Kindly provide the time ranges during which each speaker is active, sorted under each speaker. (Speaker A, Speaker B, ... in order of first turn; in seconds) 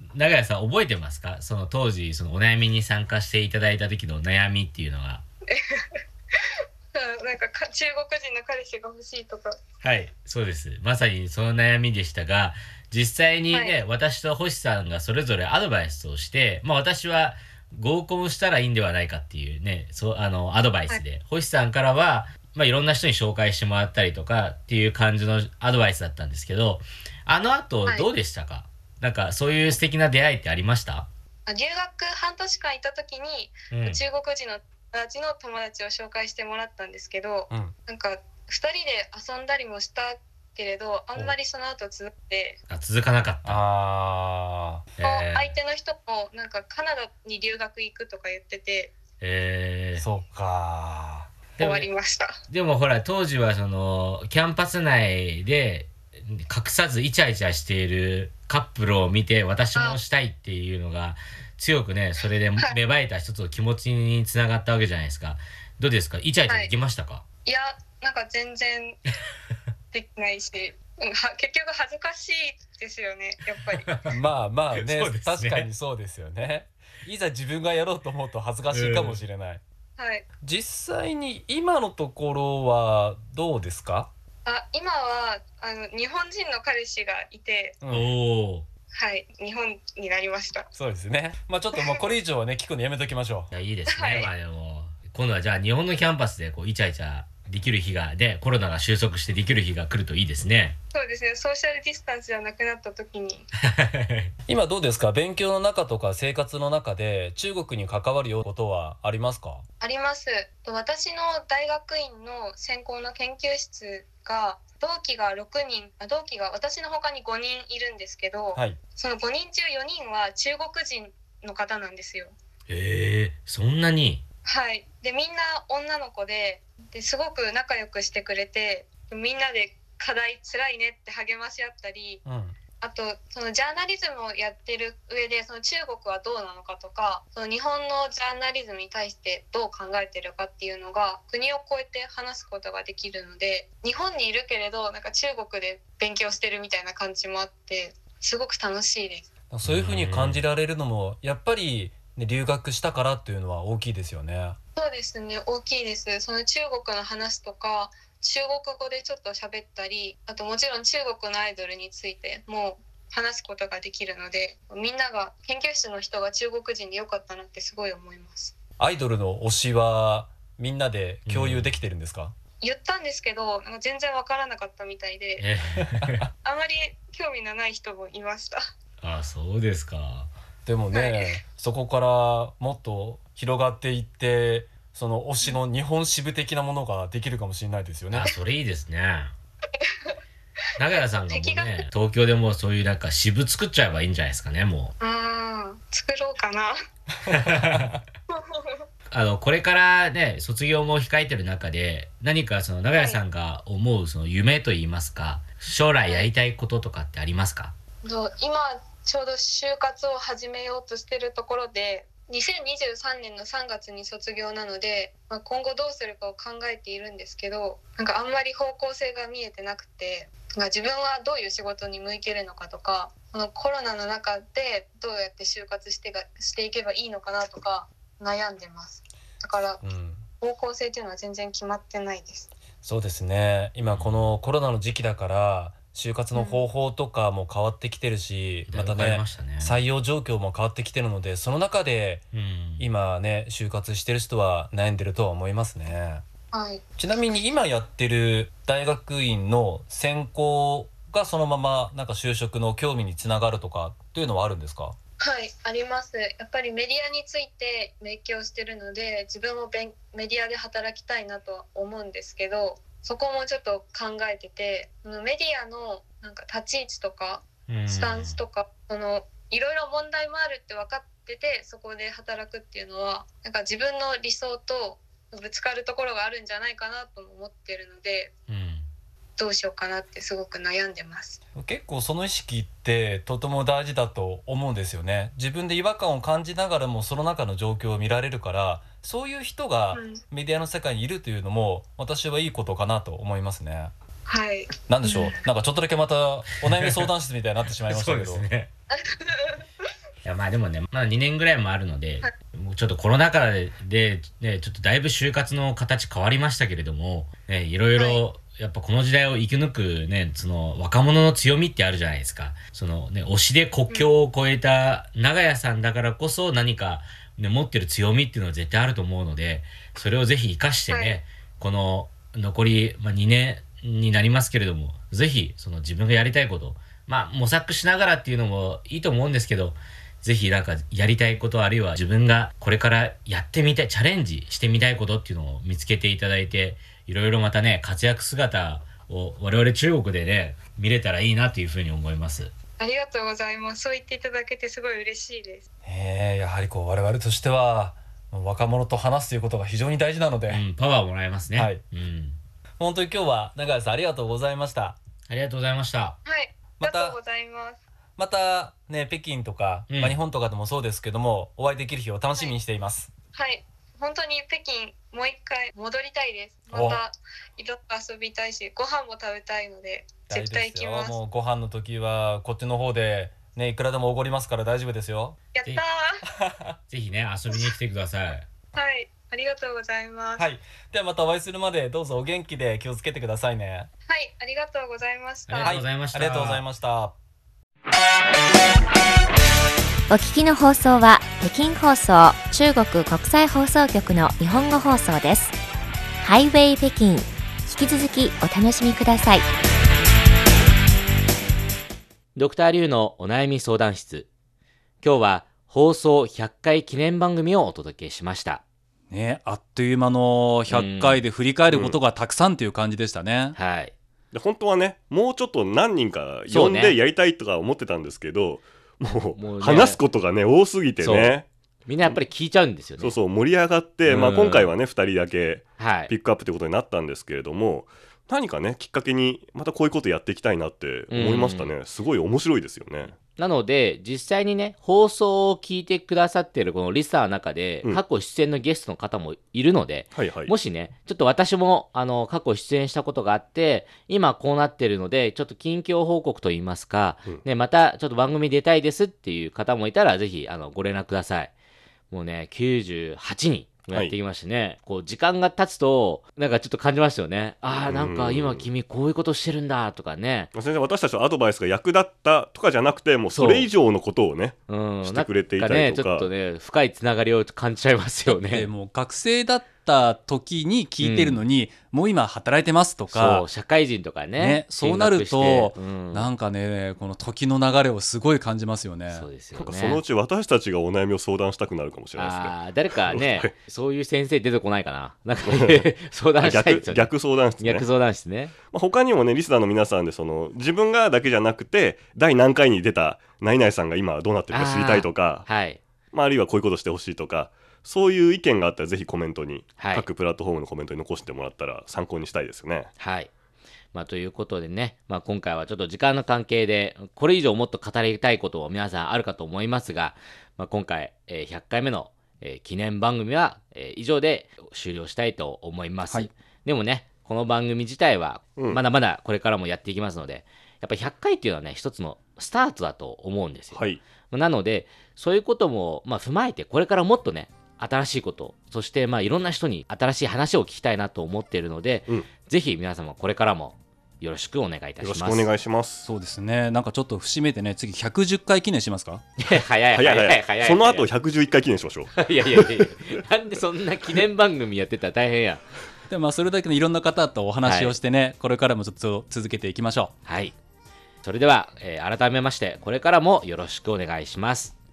Speaker A: 0.2-5.2, 9.8-31.0, 33.7-34.0, 42.7-43.6, 45.0-45.6, 49.2-50.0, 51.6-51.9, 52.5-67.2, 73.9-74.1, 74.8-75.7, 78.7-79.2, 87.9-88.6, 93.5-100.8, 104.0-104.3, 122.7-124.2, 149.7-150.4, 171.3-171.7, 175.4-176.2, 179.0-180.3, 188.1-189.3, 190.8-194.9, 199.1-207.7, 233.9-234.3, 238.7-239.8, 242.3-242.9, 267.7-268.4, 278.5-278.9, 297.9-298.7, 300.2-342.5, 350.5-352.4, 355.3-356.1, 359.9-360.2, 376.9-378.4, 385.5-386.6, 402.4-404.3, 405.0-408.6, 410.7-411.2, 413.5-413.9, 416.5-417.0, 419.1-420.0, 421.0-423.2, 424.1-424.7, 425.8-426.1, 431.1-431.7, 433.4-451.5, 452.1-460.5, 463.3-463.7, 464.7-468.7, 471.0-471.4, 473.1-476.3, 479.1-480.0, 482.2-488.5, 494.5-495.8, 499.8-500.1, 503.0-503.3, 503.9-535.5, 539.4-541.1, 542.2-545.6, 547.6-548.0, 550.3-550.5, 551.2-554.8
Speaker B: 5.5-5.8, 6.9-9.6, 13.5-13.8, 27.9-28.1, 31.5-42.6, 45.0-49.0, 51.6-52.4, 59.7-60.0, 62.2-62.8, 66.5-66.8, 67.5-69.0, 69.9-73.9, 80.0-80.3, 84.5-87.8, 88.9-90.7, 91.8-92.1, 93.9-94.3, 100.9-103.5, 109.8-122.3, 124.5-132.2, 132.8-149.3, 154.8-168.5, 172.6-175.5, 176.4-178.6, 180.9-181.4, 190.8-191.9, 195.0-196.8, 198.3-198.8, 203.0-203.2, 206.0-206.3, 208.0-229.8, 230.4-232.5, 236.3-236.7, 246.5-246.8, 255.2-278.3, 279.4-281.4, 289.9-290.2, 294.3-295.4, 298.9-299.7, 308.0-308.2, 313.9-314.1, 320.9-321.2, 342.8-345.7, 356.2-357.8, 363.3-371.2, 375.5-376.2, 377.5-377.8, 378.7-380.5, 384.1-385.8
Speaker C: 43.4-44.9, 50.0-51.3, 74.1-79.6, 80.4-84.1, 87.8-88.1, 90.7-93.5, 104.5-109.6, 132.2-132.6, 149.5-154.6, 168.8-172.3, 175.8-176.3, 180.7-188.3, 197.2-198.0, 229.8-230.2, 232.8-242.3, 242.8-246.2, 247.0-255.0, 281.6-293.9, 294.9-298.5, 345.9-350.7, 351.5-351.8, 352.8-355.0, 356.8-357.2, 358.2-363.1, 366.7-367.0, 370.3-375.4, 376.4-376.8, 380.4-383.9, 385.6-387.2, 409.1-413.6, 468.3-473.5, 474.4-479.3, 536.0-539.2, 546.1-550.1
Speaker D: 390.1-395.6, 396.2-399.4
Speaker E: 411.7-412.0, 414.3-421.5, 423.0-433.1, 440.1-440.5, 457.9-458.7, 460.5-466.3, 479.6-483.5, 485.5-485.9, 486.4-487.9, 488.7-495.5, 496.1-502.9, 523.7-524.0, 535.0-536.1, 539.9-542.9